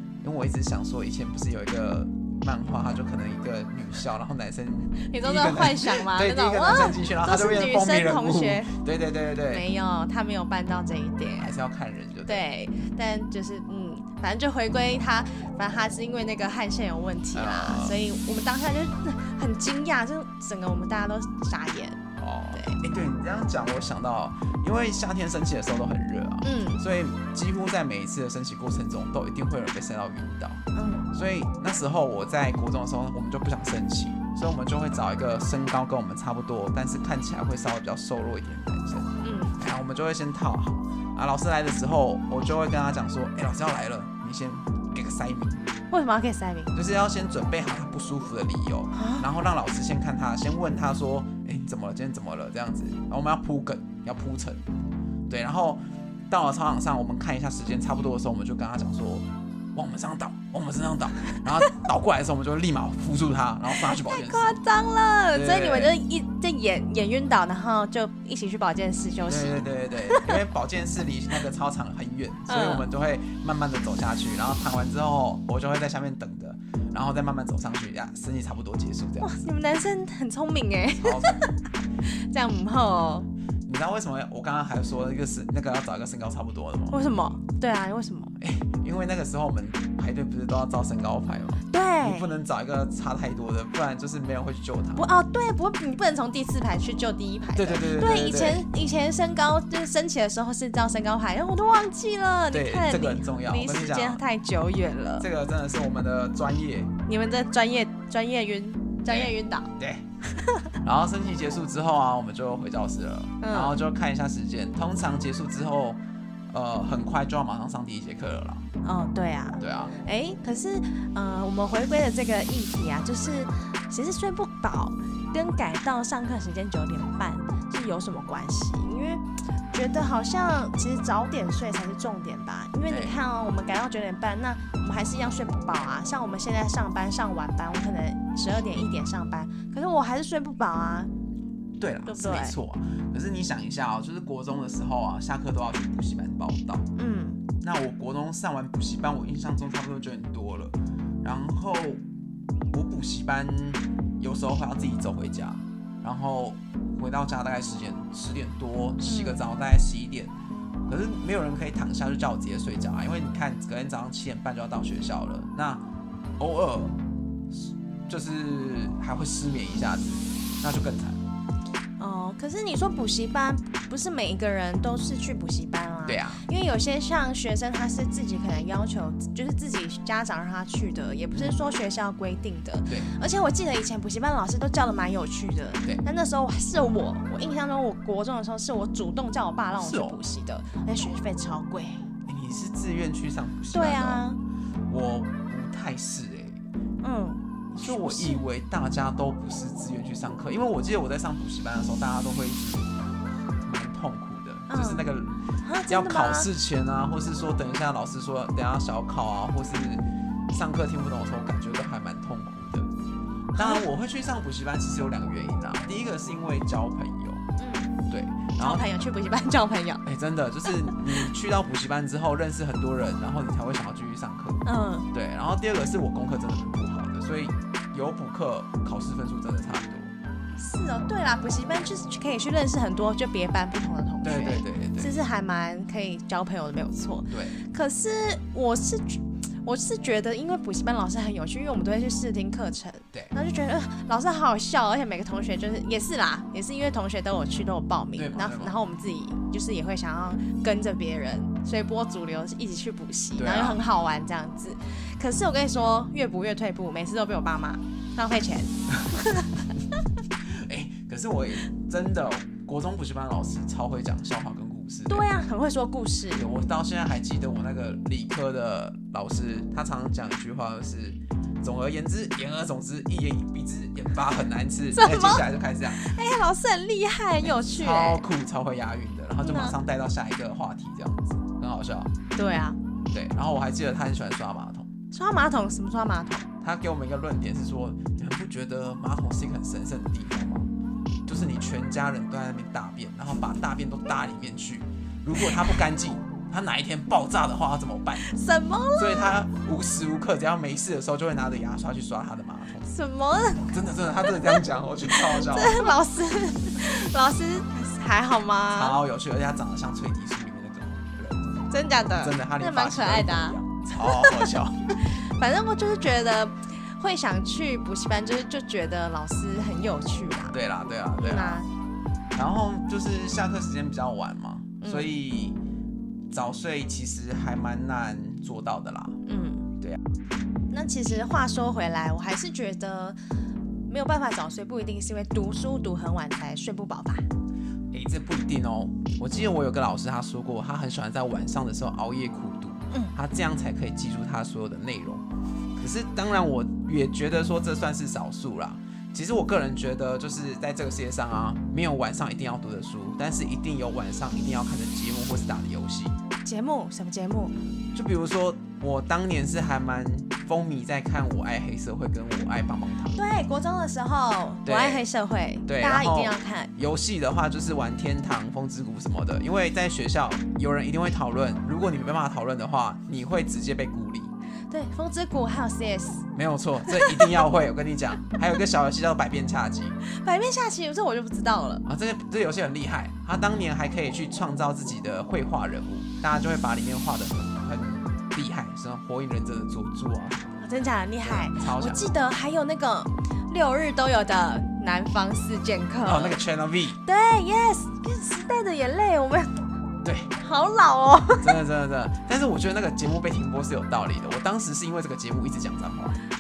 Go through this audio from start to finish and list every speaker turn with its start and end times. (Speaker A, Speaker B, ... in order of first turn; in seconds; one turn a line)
Speaker A: 0.2-9.7
Speaker B: 5.0-8.7
Speaker B: 9.5-11.5
Speaker A: 11.4-12.4
Speaker B: 12.3-22.0
Speaker A: 17.3-18.0
Speaker A: 22.2-45.6
Speaker B: 22.5-22.8
Speaker B: 26.4-26.8
Speaker B: 30.8-31.1
Speaker B: 39.2-39.6
Speaker B: 45.9-46.7
Speaker A: 46.7-54.6
Speaker B: 48.9-49.3
Speaker A: 55.3-64.6
Speaker B: 63.8-70.4
Speaker A: 65.3-65.9
Speaker A: 69.3-79.4
Speaker B: 72.5-72.8
Speaker B: 79.2-83.3
Speaker A: 81.0-81.5
Speaker A: 83.7-87.1
Speaker B: 86.9-88.3
Speaker A: 88.4-95.1
Speaker B: 91.7-92.3
Speaker B: 95.0-105.3
Speaker A: 97.5-98.6
Speaker A: 102.5-104.2
Speaker A: 105.2-106.9
Speaker B: 107.1-109.7
Speaker A: 109.1-110.0
Speaker B: 110.3-110.7
Speaker A: 110.8-116.0
Speaker B: 113.4-113.8
Speaker A: 116.5-118.7
Speaker B: 118.8-141.1
Speaker A: 119.6-120.0
Speaker A: 132.9-133.2
Speaker A: 141.8-146.8
Speaker B: 142.1-142.6
Speaker B: 147.0-147.4
Speaker A: 147.6-152.0
Speaker A: 152.7-160.3
Speaker B: 159.0-159.4
Speaker A: 160.9-165.8
Speaker A: 166.4-167.0
Speaker A: 167.5-171.2
Speaker B: 172.0-192.1
Speaker A: 176.1-176.4
Speaker A: 181.3-181.6
Speaker A: 189.8-190.2
Speaker A: 192.3-194.2
Speaker B: 193.7-194.4
Speaker A: 194.9-196.6
Speaker B: 197.0-198.4
Speaker A: 197.8-212.9
Speaker B: 204.7-205.1
Speaker B: 205.6-206.5
Speaker A: 213.5-217.4
Speaker B: 213.6-213.9
Speaker B: 217.6-217.9
Speaker A: 218.1-218.9
Speaker B: 218.6-220.0
Speaker A: 220.1-230.1
Speaker B: 224.7-225.1
Speaker B: 230.6-259.7
Speaker A: 234.2-235.1
Speaker A: 237.3-237.6
Speaker A: 248.2-248.8
Speaker A: 253.4-253.8
Speaker A: 260.4-265.3
Speaker B: 265.1-266.5
Speaker A: 266.3-276.1
Speaker B: 274.9-278.2
Speaker A: 277.6-282.1
Speaker B: 279.4-279.8
Speaker B: 282.4-282.8
Speaker A: 283.1-284.9
Speaker B: 285.1-286.5
Speaker A: 286.6-290.7
Speaker A: 291.3-298.3
Speaker B: 298.2-299.4
Speaker A: 299.0-302.9
Speaker B: 302.9-304.6
Speaker A: 303.7-305.9
Speaker B: 305.1-309.0
Speaker A: 308.7-311.6
Speaker B: 311.7-320.6
Speaker A: 312.2-315.0
Speaker A: 320.5-321.6
Speaker B: 321.2-321.7
Speaker A: 322.4-325.6
Speaker B: 324.8-325.1
Speaker A: 326.3-329.2
Speaker B: 329.3-329.7
Speaker B: 330.7-333.2
Speaker B: 333.9-337.3
Speaker A: 337.9-345.2
Speaker B: 342.9-343.2
Speaker A: 345.8-356.2
Speaker B: 356.4-357.6
Speaker A: 357.9-363.2
Speaker B: 363.1-366.7
Speaker A: 364.6-365.1
Speaker A: 365.7-374.3
Speaker B: 374.7-376.3
Speaker A: 376.4-380.0
Speaker B: 376.9-377.4
Speaker B: 380.1-381.9
Speaker A: 381.9-390.5
Speaker B: 390.6-396.4
Speaker A: 391.2-392.0
Speaker A: 396.0-397.0
Speaker B: 397.0-399.6
Speaker A: 400.0-400.3
Speaker B: 400.4-401.6
Speaker A: 401.4-406.2